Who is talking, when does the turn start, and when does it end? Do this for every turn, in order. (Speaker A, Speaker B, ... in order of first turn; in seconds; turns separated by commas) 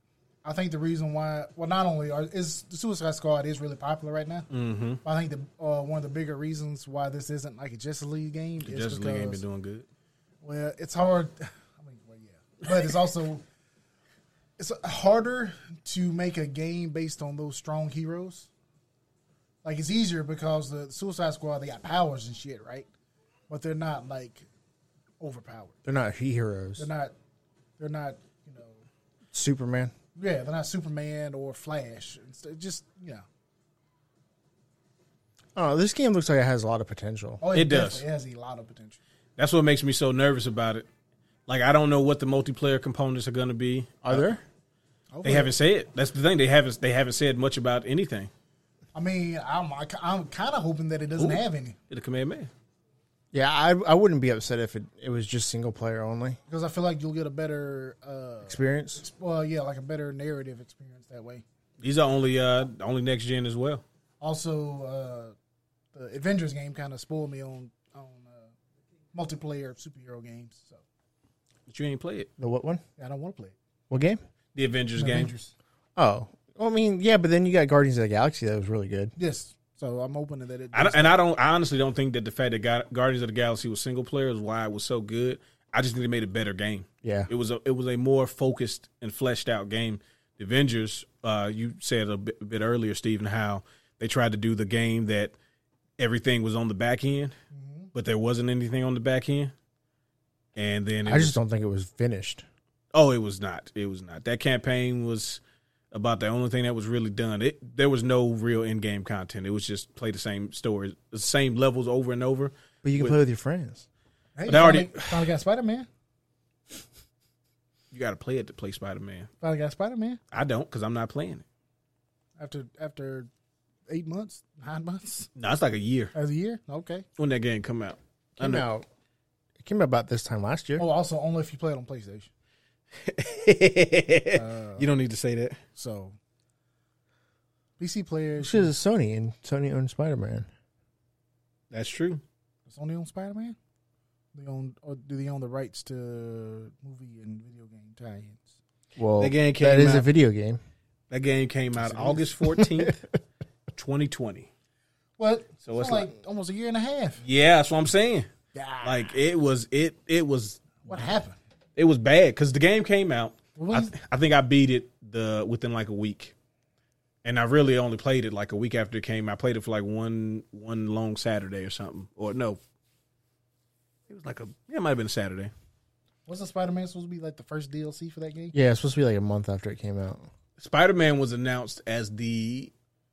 Speaker A: 0.4-4.5, Speaker B: 4.5-5.0, Speaker A: 5.0-9.4, Speaker B: 8.6-9.8, Speaker A: 10.4-13.4, Speaker A: 14.6-18.5, Speaker A: 19.6-22.9, Speaker A: 23.5-24.4, Speaker A: 25.2-25.8, Speaker C: 25.8-26.9, Speaker A: 26.8-27.1, Speaker A: 27.8-28.8, Speaker C: 29.3-29.9, Speaker A: 30.1-33.2, Speaker C: 35.5-37.4, Speaker A: 37.4-39.0, Speaker B: 37.5-38.0, Speaker B: 39.4-40.9, Speaker B: 41.5-44.3, Speaker C: 44.0-44.4, Speaker A: 45.1-45.5, Speaker B: 45.2-48.3, Speaker A: 48.9-51.8, Speaker B: 51.2-52.5, Speaker C: 53.3-56.4, Speaker A: 56.5-61.4, Speaker C: 58.5-59.0, Speaker B: 61.8-63.8, Speaker A: 64.2-65.3, Speaker A: 65.9-68.5, Speaker A: 69.1-70.8, Speaker B: 71.7-72.3, Speaker C: 72.4-72.8, Speaker A: 73.0-73.5, Speaker C: 73.9-74.2, Speaker B: 74.5-75.3, Speaker A: 75.0-75.5, Speaker C: 76.0-79.1, Speaker A: 79.2-81.2, Speaker B: 80.7-95.3, Speaker C: 87.0-87.3, Speaker B: 96.0-97.3, Speaker A: 97.5-97.9, Speaker B: 97.9-99.5, Speaker B: 100.5-101.3, Speaker C: 101.0-102.4, Speaker B: 102.9-105.4, Speaker B: 105.9-113.2, Speaker C: 112.8-113.8, Speaker A: 114.3-115.9, Speaker B: 114.5-115.2, Speaker B: 117.9-119.3, Speaker A: 119.4-120.2, Speaker B: 120.3-121.4, Speaker A: 122.4-123.3, Speaker A: 123.9-125.3, Speaker B: 125.3-126.1, Speaker A: 126.1-127.0, Speaker B: 127.2-128.6, Speaker C: 128.4-128.8, Speaker C: 129.6-130.8, Speaker A: 130.8-132.3, Speaker B: 133.0-135.6, Speaker A: 134.3-134.9, Speaker A: 135.8-136.1, Speaker A: 137.8-138.7, Speaker C: 138.4-140.5, Speaker B: 141.7-142.2, Speaker A: 142.7-143.6, Speaker A: 144.3-148.4, Speaker C: 149.0-150.6, Speaker B: 149.2-150.1, Speaker B: 151.1-153.0, Speaker A: 151.8-152.3, Speaker C: 152.6-152.9, Speaker B: 153.7-154.5, Speaker A: 155.2-157.2, Speaker B: 155.6-156.1, Speaker B: 157.2-158.3, Speaker A: 158.5-159.2, Speaker B: 158.8-160.7, Speaker A: 160.8-161.3, Speaker B: 161.8-166.3, Speaker A: 163.6-163.9, Speaker B: 167.2-172.6, Speaker B: 174.1-175.5, Speaker A: 176.3-178.5, Speaker C: 178.5-180.3, Speaker B: 180.6-182.7